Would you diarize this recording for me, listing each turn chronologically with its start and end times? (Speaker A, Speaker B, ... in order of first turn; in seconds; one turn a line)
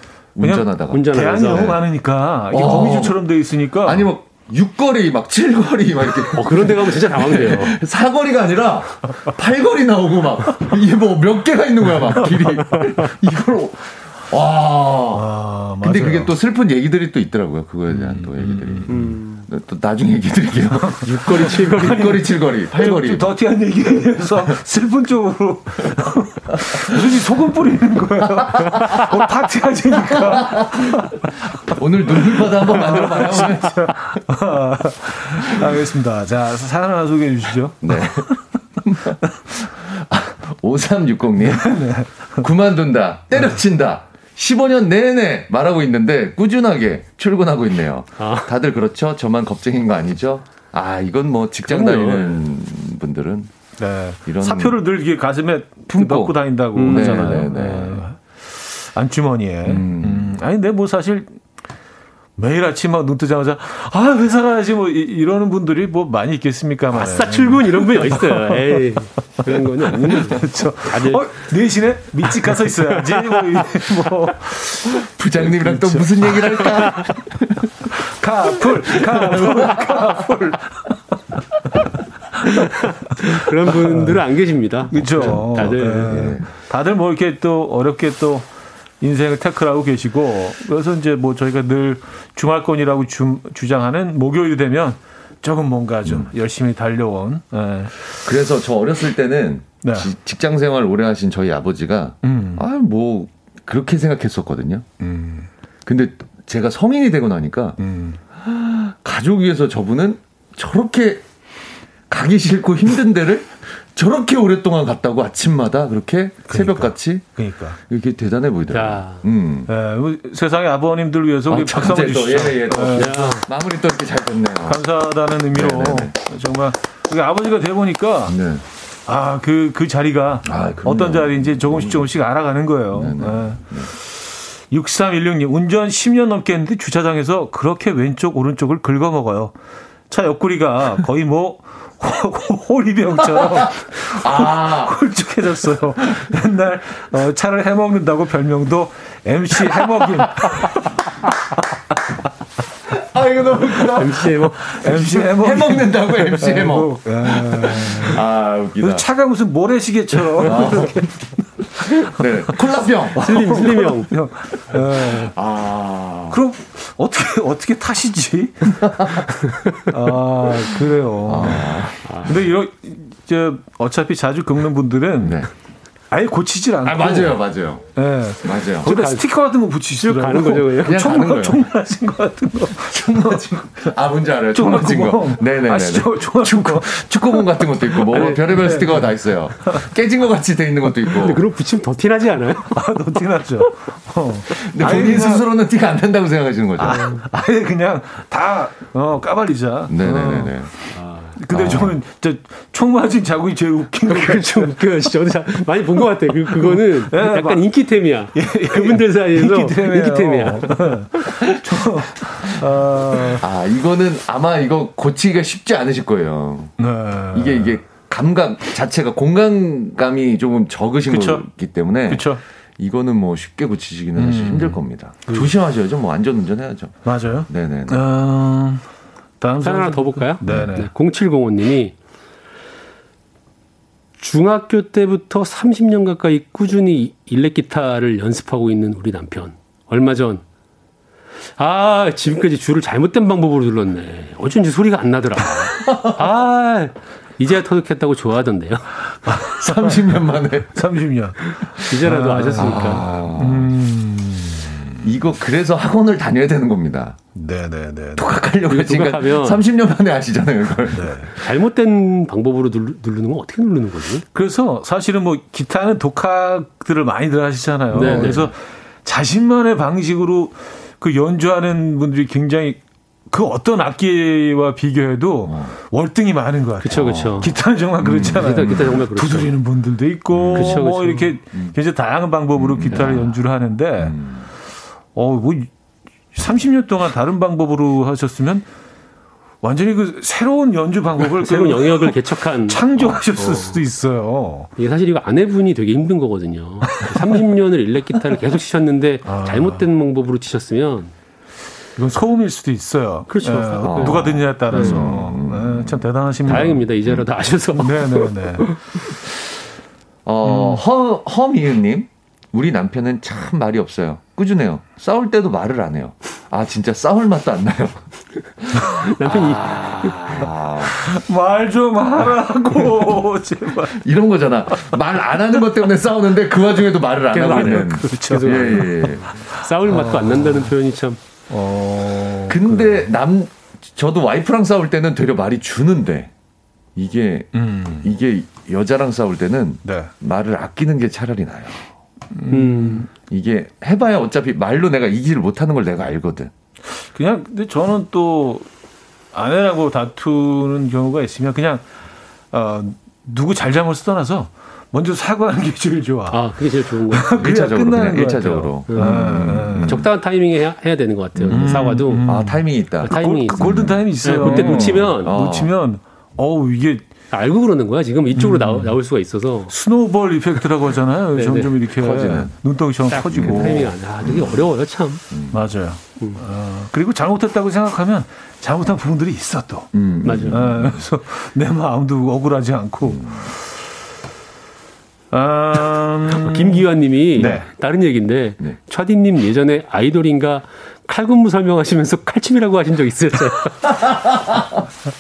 Speaker A: 0.3-1.8
Speaker B: 0.4-4.1
Speaker C: 0.9-1.8
Speaker A: 2.5-3.2
Speaker A: 3.8-15.3
Speaker C: 6.3-7.8
Speaker B: 15.1-16.3
Speaker A: 15.8-23.3
Speaker B: 17.9-19.1
Speaker C: 18.9-19.5
Speaker C: 21.0-22.2
Speaker B: 21.4-31.3
Speaker A: 30.2-30.9
Speaker A: 31.7-33.8
Speaker B: 32.0-38.4
Speaker A: 37.8-41.8
Speaker B: 41.5-42.5
Speaker A: 42.4-53.5
Speaker C: 48.2-48.5
Speaker C: 51.7-52.4
Speaker B: 53.8-61.4
Speaker A: 54.3-54.8
Speaker A: 55.9-58.0
Speaker C: 56.8-57.5
Speaker A: 59.6-60.3
Speaker B: 62.4-68.9
Speaker C: 66.9-71.5
Speaker B: 70.0-76.9
Speaker C: 72.7-73.7
Speaker A: 75.0-77.9
Speaker B: 78.2-81.4
Speaker A: 79.1-80.2
Speaker B: 82.4-84.2
Speaker C: 82.6-86.2
Speaker B: 84.9-88.5
Speaker A: 85.2-86.5
Speaker B: 89.0-98.0
Speaker A: 98.2-104.9
Speaker B: 99.8-100.1
Speaker B: 102.2-102.6
Speaker B: 105.0-105.5
Speaker A: 105.9-107.8
Speaker B: 107.8-108.2
Speaker A: 108.4-111.3
Speaker A: 112.1-119.7
Speaker B: 116.5-117.8
Speaker C: 118.7-119.2
Speaker B: 119.7-123.4
Speaker A: 121.5-124.8
Speaker C: 123.0-123.4
Speaker B: 124.7-128.3
Speaker A: 125.5-126.1
Speaker A: 128.3-128.6
Speaker B: 129.1-139.5
Speaker A: 130.5-132.1
Speaker A: 132.9-133.9
Speaker B: 140.1-151.0
Speaker A: 143.5-144.9
Speaker A: 152.9-159.1
Speaker C: 154.0-154.6
Speaker B: 154.7-158.2
Speaker B: 158.8-162.6
Speaker A: 160.4-160.9
Speaker A: 162.2-163.2
Speaker B: 163.2-165.3
Speaker C: 163.2-164.1
Speaker A: 165.1-166.4
Speaker B: 166.3-171.7
Speaker A: 168.9-169.2
Speaker A: 171.3-172.3
Speaker C: 172.1-172.4
Speaker B: 172.2-175.4
Speaker A: 175.2-175.5
Speaker B: 176.1-177.4
Speaker A: 176.8-177.9
Speaker B: 177.9-183.4
Speaker A: 178.4-178.9
Speaker C: 178.8-179.2
Speaker C: 180.0-181.1
Speaker A: 180.8-181.6
Speaker A: 182.9-191.4
Speaker B: 184.5-189.7
Speaker C: 188.1-188.4
Speaker C: 191.1-192.8
Speaker B: 192.7-195.4
Speaker A: 194.6-197.1
Speaker B: 196.8-204.7
Speaker A: 199.9-200.8
Speaker C: 200.9-201.4
Speaker A: 201.5-202.0
Speaker C: 204.1-211.3
Speaker B: 206.6-207.7
Speaker B: 208.3-213.4
Speaker A: 211.5-212.7
Speaker A: 213.3-216.8
Speaker B: 216.8-217.8
Speaker A: 217.3-228.0
Speaker B: 221.1-221.5
Speaker B: 222.1-222.4
Speaker B: 224.2-224.8
Speaker B: 227.1-228.8
Speaker B: 229.4-230.9
Speaker C: 229.6-231.9
Speaker C: 234.2-240.4
Speaker C: 241.6-248.9
Speaker A: 245.8-246.1
Speaker B: 249.2-255.1
Speaker A: 249.5-250.8
Speaker C: 251.5-253.1
Speaker A: 252.6-253.7
Speaker A: 255.0-257.2
Speaker B: 257.4-258.2
Speaker A: 258.2-261.3
Speaker C: 258.7-259.7
Speaker B: 260.9-261.3
Speaker C: 261.4-264.3
Speaker B: 264.3-284.1
Speaker C: 267.9-268.5
Speaker A: 267.9-268.5
Speaker A: 275.5-275.7
Speaker C: 276.8-277.5
Speaker A: 276.9-279.0
Speaker C: 278.3-279.6
Speaker A: 280.3-280.9
Speaker C: 280.5-281.4
Speaker A: 282.6-283.4
Speaker A: 284.0-284.5
Speaker B: 285.1-285.7
Speaker B: 286.3-288.7
Speaker B: 289.6-294.7
Speaker C: 291.3-293.8
Speaker C: 294.8-301.1
Speaker B: 296.9-297.3
Speaker B: 299.2-299.9
Speaker B: 302.0-306.9
Speaker C: 303.3-305.2
Speaker A: 303.8-306.0
Speaker C: 306.5-309.0
Speaker A: 306.5-307.2
Speaker B: 307.8-308.7
Speaker A: 310.3-318.1
Speaker B: 310.4-310.8
Speaker A: 318.6-320.9
Speaker C: 318.9-320.4
Speaker B: 320.8-324.0
Speaker A: 323.9-329.4
Speaker C: 327.3-331.2
Speaker B: 327.4-330.7
Speaker B: 331.5-333.1
Speaker A: 332.5-336.3
Speaker A: 337.0-341.8
Speaker B: 337.5-338.1
Speaker B: 339.8-340.1
Speaker B: 342.3-343.1
Speaker C: 342.5-343.1
Speaker A: 343.2-346.5
Speaker B: 346.9-348.7
Speaker B: 349.3-351.9
Speaker B: 352.5-360.1
Speaker C: 356.3-357.3
Speaker A: 357.3-360.1
Speaker C: 358.9-362.3
Speaker A: 361.4-365.7
Speaker B: 361.5-367.1
Speaker C: 363.1-365.4
Speaker C: 367.3-369.7
Speaker B: 368.3-368.9
Speaker B: 369.7-373.9
Speaker C: 371.4-371.8
Speaker A: 371.9-372.6
Speaker C: 373.1-375.2
Speaker A: 373.3-374.7
Speaker A: 375.3-375.6
Speaker B: 375.5-379.9
Speaker A: 379.9-381.1
Speaker C: 380.2-380.7
Speaker B: 380.5-383.5
Speaker A: 383.1-383.5
Speaker B: 385.3-386.8
Speaker C: 386.4-393.8
Speaker B: 387.4-387.7
Speaker A: 393.9-394.8